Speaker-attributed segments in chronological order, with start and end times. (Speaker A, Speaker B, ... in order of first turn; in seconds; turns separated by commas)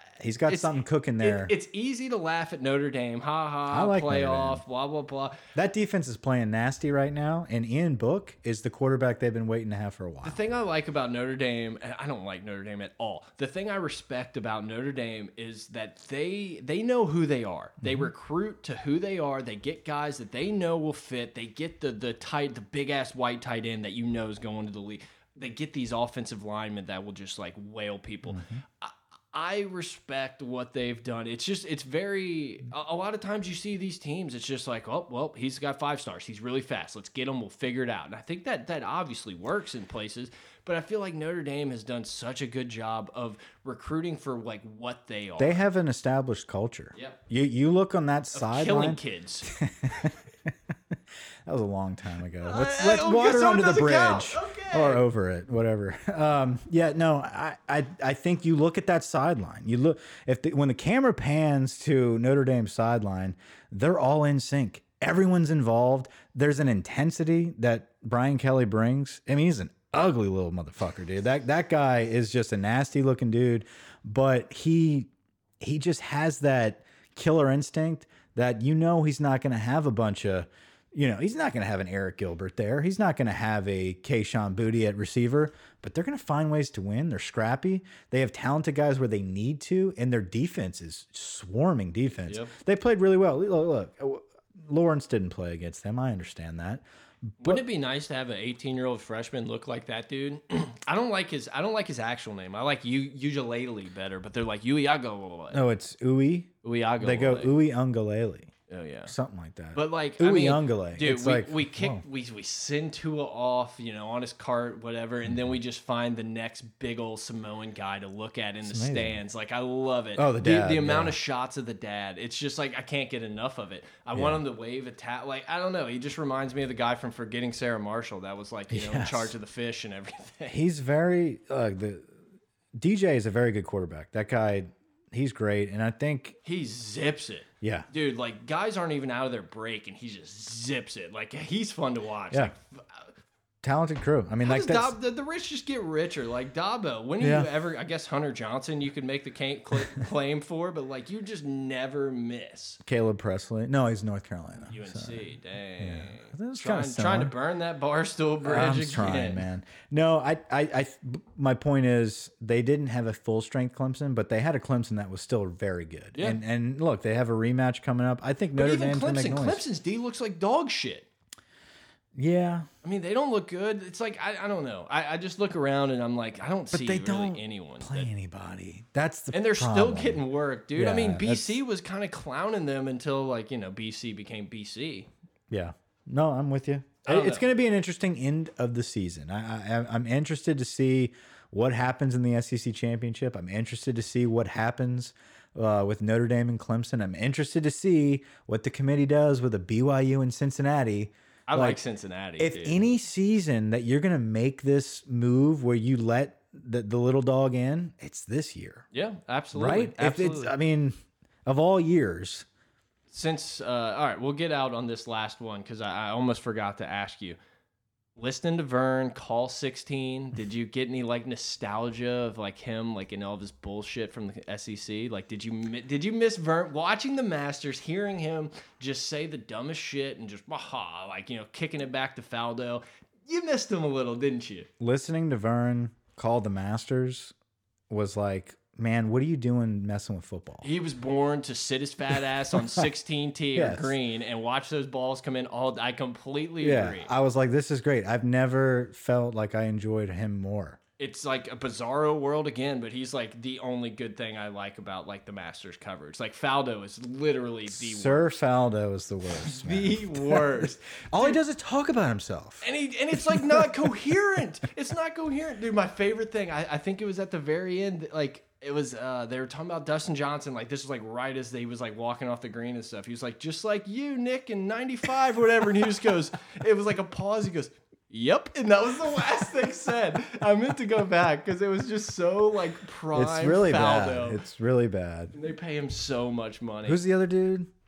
Speaker A: 0.2-1.5, Speaker B: 0.5-5.4, Speaker A: 3.7-4.6, Speaker A: 5.5-10.4, Speaker B: 10.2-45.6, Speaker A: 17.8-18.1, Speaker A: 28.3-28.6, Speaker A: 45.4-50.5, Speaker B: 48.4-49.5, Speaker A: 51.5-75.1, Speaker B: 52.4-55.0, Speaker A: 75.6-96.8, Speaker B: 92.2-92.5, Speaker A: 97.4-97.6, Speaker B: 97.4-105.6, Speaker A: 105.5-108.5, Speaker B: 106.6-107.6, Speaker B: 108.7-109.1, Speaker A: 109.1-112.0, Speaker B: 109.8-130.6, Speaker A: 118.7-119.2, Speaker A: 120.2-121.2, Speaker A: 124.1-124.4, Speaker A: 128.7-129.3, Speaker A: 130.5-132.1, Speaker A: 132.8-136.4, Speaker B: 136.4-143.1, Speaker A: 137.6-137.9, Speaker A: 143.6-144.9, Speaker B: 144.4-152.8, Speaker A: 147.2-147.5, Speaker A: 152.8-157.3, Speaker B: 154.7-159.4, Speaker A: 158.4-169.6, Speaker B: 168.6-171.1, Speaker A: 172.2-172.7, Speaker B: 172.8-178.1, Speaker A: 176.7-180.2, Speaker B: 179.3-185.1, Speaker A: 180.8-181.6, Speaker A: 185.5-201.8, Speaker B: 187.1-187.5, Speaker B: 201.5-202.8, Speaker A: 202.4-208.8, Speaker B: 208.9-210.5, Speaker A: 209.6-212.5, Speaker B: 213.1-217.4, Speaker B: 218.2-234.7, Speaker A: 234.8-237.3, Speaker A: 237.9-240.7, Speaker B: 240.6-247.1, Speaker A: 243.6-243.9, Speaker A: 246.6-250.8, Speaker B: 251.0-258.4, Speaker A: 257.7-263.6, Speaker B: 259.3-261.4, Speaker B: 262.6-284.4, Speaker A: 283.1-285.4, Speaker B: 285.3-287.0, Speaker A: 286.9-287.7